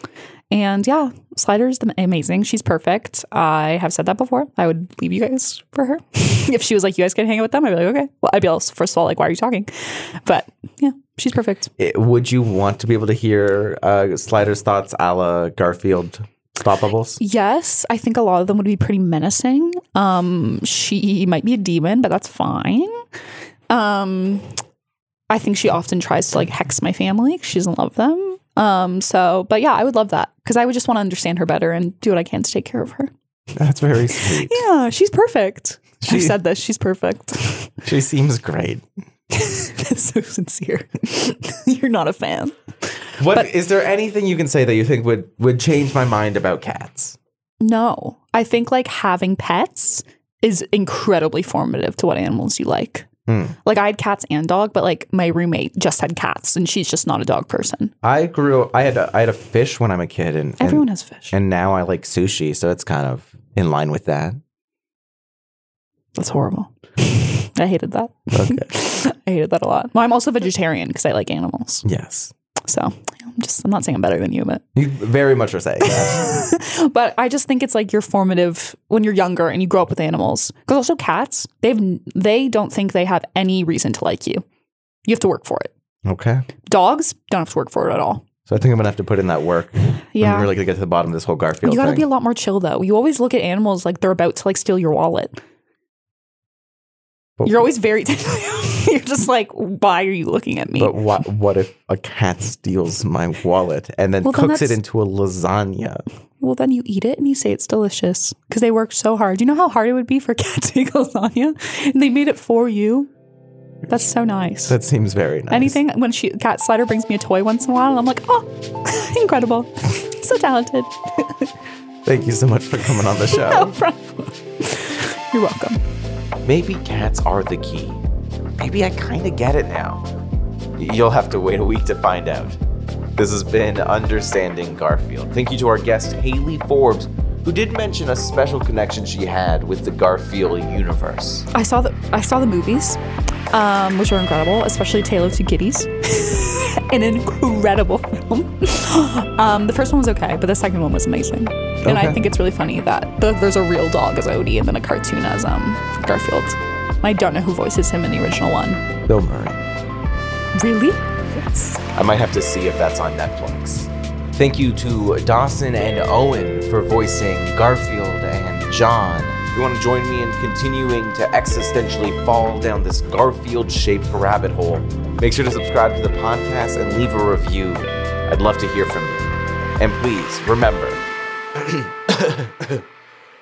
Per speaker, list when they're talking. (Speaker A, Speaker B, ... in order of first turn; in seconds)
Speaker A: 0.5-11.7, 17.2-23.0, 23.7-24.5, 25.3-33.1, 34.1-37.8, 39.3-42.6, 43.2-43.5, 47.6-53.1, 53.6-57.9, 60.6-61.3, 66.2-71.8, 72.7-74.7, 75.8-84.4, 85.1-85.7, 86.7-88.3, 90.1-90.5, 91.6-95.4, 97.5-101.1, 104.2-104.8, 106.4-113.1, 113.9-114.8, 115.5-121.5, 123.1-125.8, 141.5-143.0, 143.5-158.8, 160.6-161.8
Speaker B: 11.8-17.2, 33.6-34.6, 36.0-36.4, 37.8-38.8, 43.2-47.2, 53.3-53.6, 58.0-64.4, 68.3-68.7, 71.8-72.3, 74.8-76.4, 86.0-86.5, 88.5-92.1, 100.8-106.0, 114.7-115.8, 122.0-123.8, 126.4-128.0, 128.6-130.1, 130.8-132.6, 133.2-141.5, 151.8-152.2, 159.1-159.6, 161.9-181.0, 181.6-182.8